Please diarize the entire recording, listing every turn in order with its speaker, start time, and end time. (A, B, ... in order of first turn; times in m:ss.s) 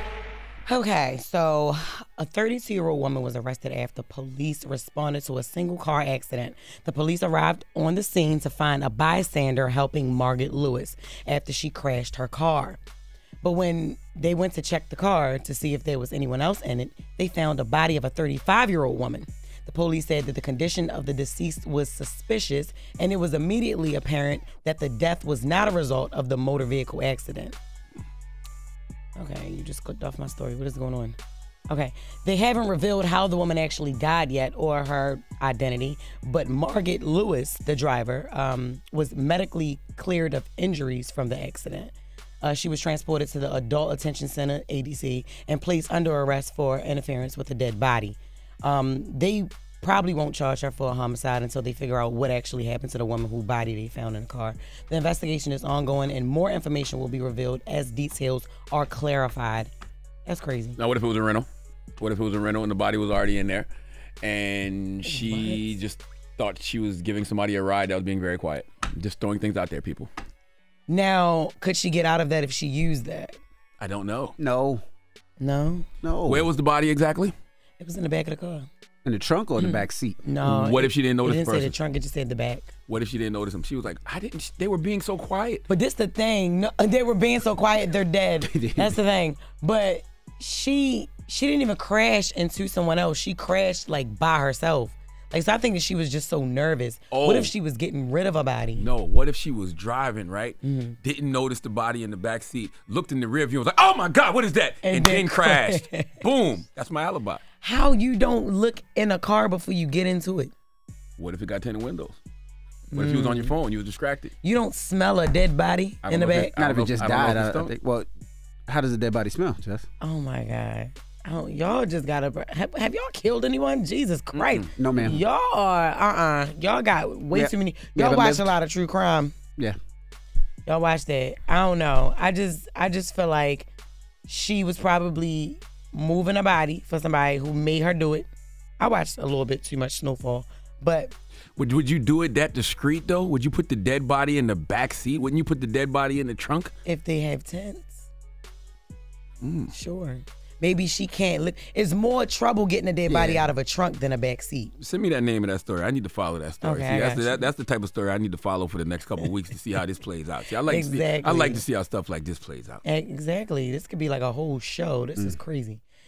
0:00.7-0:12.8 A
0:13.4-0:27.6 A
0:29.2-0:31.2 A
0:31.7-0:59.7 A
1:00.3-1:00.8 A
1:00.8-1:01.5 B
1:02.0-1:03.7 B
1:04.2-1:10.1 B
1:05.1-1:05.7 A
1:10.9-1:13.4 A
1:13.8-1:14.4 B
1:14.4-1:14.8 C
1:15.4-1:15.9 A
1:16.0-1:16.5 C
1:16.3-1:17.3 B
1:17.8-1:18.7 A
1:19.0-1:20.2 C
1:19.6-1:22.7 A
1:20.4-1:21.8 B
1:22.9-1:25.6 B
1:25.7-1:38.9 A
1:28.4-1:29.0 C
1:37.1-1:37.5 B
1:38.8-1:47.4 B
1:40.6-1:41.0 A
1:44.8-1:46.1 A
1:47.6-1:50.5 A
1:51.2-1:52.2 B
1:52.9-1:53.6 A
1:53.0-1:54.3 B
1:54.4-1:56.5 A
1:56.0-1:57.7 B
1:56.6-1:58.1 C
1:58.7-1:59.9 C
2:00.0-2:09.4 A
2:04.3-2:04.7 B
2:04.8-2:05.2 C
2:07.3-2:08.5 C
2:10.7-2:13.7 A
2:14.3-2:18.3 A
2:18.8-2:21.1 A
2:21.6-2:26.7 B
2:26.9-2:28.1 A
2:29.4-2:29.7 B
2:29.7-2:34.8 A
2:33.1-2:33.5 C
2:34.8-2:42.8 B
2:36.6-2:37.4 A
2:40.7-2:41.6 A
2:42.8-2:45.8 A